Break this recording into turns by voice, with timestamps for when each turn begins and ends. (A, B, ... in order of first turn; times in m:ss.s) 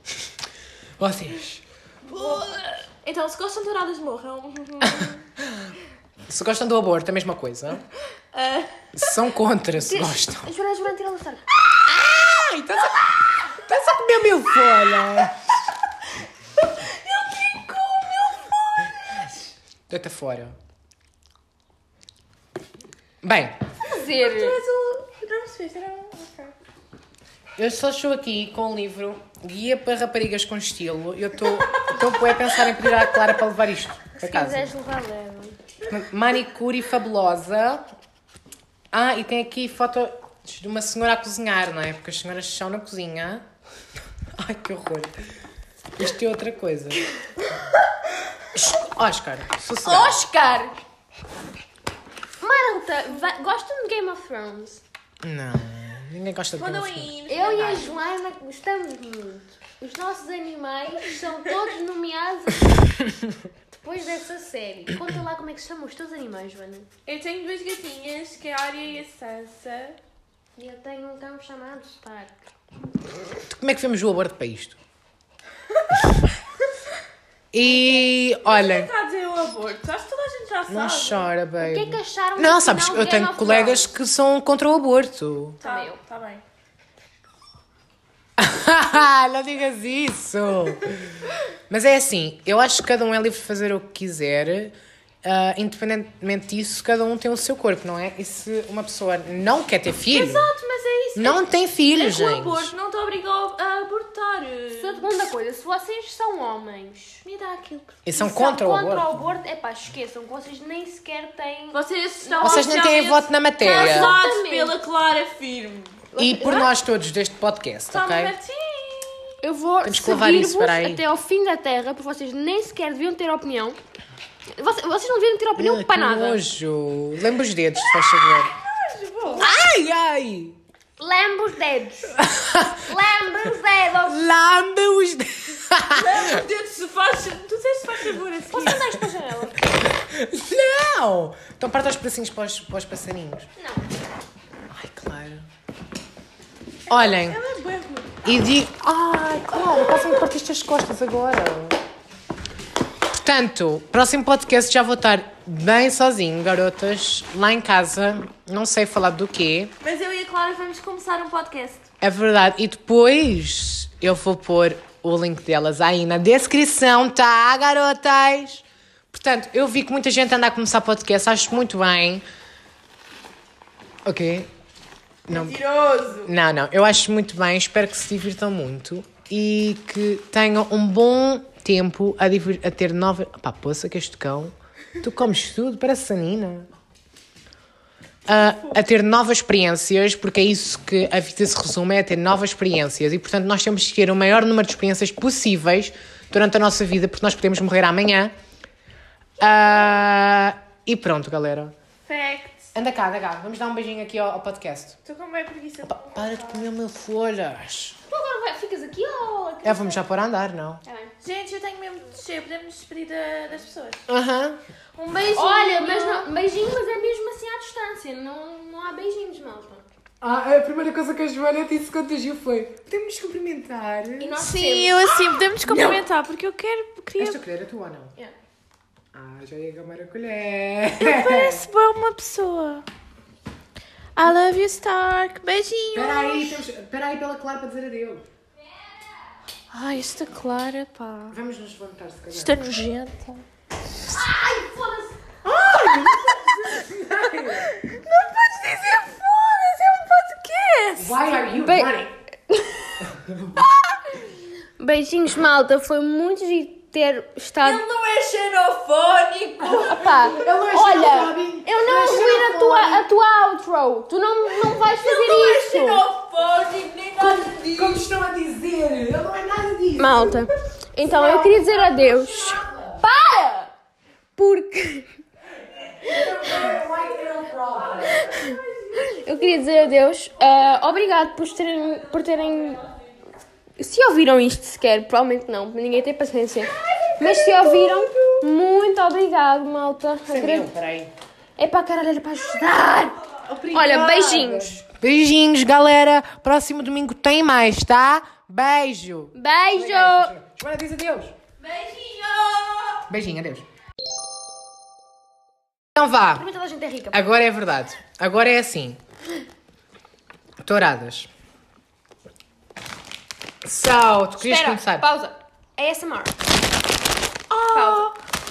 0:01.0-0:01.6 A
0:02.1-0:05.2 B
0:04.8-0:05.7 A
0:06.3-0:07.8 A
0:08.3-0:09.1 B
0:08.9-0:10.5 A
0:09.8-0:11.4 C
0:11.7-0:15.4 A
0:16.6-0:19.3 B
0:19.9-0:20.6 A
0:23.2-0:23.6 A
0:23.8-0:24.6 C
0:24.0-0:26.5 B
0:27.6-0:34.7 A
0:34.2-0:35.6 C
0:35.9-0:37.9 A
0:38.9-0:43.4 A
0:44.4-0:45.2 A
0:46.0-0:47.0 A
0:48.5-0:50.2 A
0:49.8-0:50.8 C
0:52.4-0:54.8 C
0:55.2-0:57.1 A
0:56.6-0:58.0 B
0:57.3-1:02.8 C
1:03.7-1:06.9 C
1:07.0-1:10.0 B
1:10.6-1:12.4 C
1:13.5-1:14.8 A
1:17.5-1:18.9 A
1:17.6-1:21.3 B
1:20.7-1:25.6 A
1:21.6-1:23.9 C
1:25.6-1:26.0 C
1:25.6-1:26.4 B
1:28.4-1:40.5 A
1:40.1-1:45.2 B
1:41.2-1:42.7 A
1:44.7-1:47.2 C
1:47.2-1:48.1 B
1:48.0-1:49.2 A
1:48.2-1:52.8 C
1:51.7-1:56.5 B
1:52.4-1:54.2 A
1:53.6-1:54.8 C
1:56.2-1:56.7 C
1:56.2-1:58.4 A
1:57.9-1:59.4 B
1:59.4-2:03.8 C
1:59.8-2:01.0 A
2:04.5-2:06.4 C
2:05.6-2:08.5 A
2:07.9-2:09.5 B
2:09.3-2:10.6 A
2:09.4-2:09.7 C
2:11.0-2:12.2 C
2:12.1-2:12.9 A
2:12.8-2:14.2 C
2:14.0-2:16.4 A
2:15.9-2:18.9 B
2:18.5-2:19.6 C
2:19.8-2:23.5 A
2:24.7-2:25.5 A
2:26.9-2:28.2 B
2:26.9-2:27.4 A
2:28.2-2:31.8 A
2:33.1-2:39.7 A
2:39.8-2:41.9 B
2:42.0-2:52.2 A
2:54.0-2:54.5 A
2:55.3-2:55.6 A
2:55.3-2:56.3 B
2:56.2-3:06.7 A
3:08.3-3:18.3 A
3:19.4-3:21.7 A
3:22.1-3:22.7 B
3:22.7-3:25.0 A
3:25.0-3:26.7 B
3:25.8-3:28.0 A
3:28.1-3:30.0 C
3:29.6-3:30.8 A
3:30.8-3:31.1 C
3:31.2-3:34.1 B
3:34.1-3:34.6 A
3:35.0-3:36.3 B
3:35.3-3:39.8 C
3:40.2-3:44.4 A
3:44.2-3:46.0 C
3:44.4-3:47.4 B
3:47.2-3:48.1 A
3:49.1-3:51.6 A
3:51.0-3:52.8 B
3:54.2-3:56.6 B
3:55.9-3:58.2 A
3:59.7-4:01.4 B
4:01.3-4:02.6 A
4:02.3-4:03.4 B
4:04.1-4:05.2 C
4:05.4-4:07.8 A
4:05.9-4:06.5 B
4:07.7-4:11.3 B
4:11.0-4:12.1 A
4:11.4-4:13.0 C
4:13.0-4:13.7 A
4:14.8-4:17.8 C
4:17.6-4:19.9 B
4:19.6-4:26.1 C
4:19.6-4:23.0 A
4:24.6-4:27.9 B
4:26.4-4:30.5 A
4:30.0-4:33.7 C
4:31.1-4:33.0 A
4:31.2-4:31.7 B
4:34.4-4:35.1 C
4:35.8-4:38.4 A
4:38.2-4:42.8 C
4:43.8-4:50.7 C
4:47.1-4:48.4 B
4:50.3-4:51.1 A
4:51.6-4:54.8 C
4:53.4-5:01.4 A
4:59.4-5:00.4 C
5:01.8-5:02.8 B
5:03.1-5:03.6 A
5:05.9-5:06.4 A
5:06.4-5:07.2 C
5:07.1-5:09.0 A
5:10.6-5:11.3 A
5:13.6-5:15.0 A
5:14.4-5:16.4 C
5:17.5-5:18.2 B
5:17.7-5:18.1 C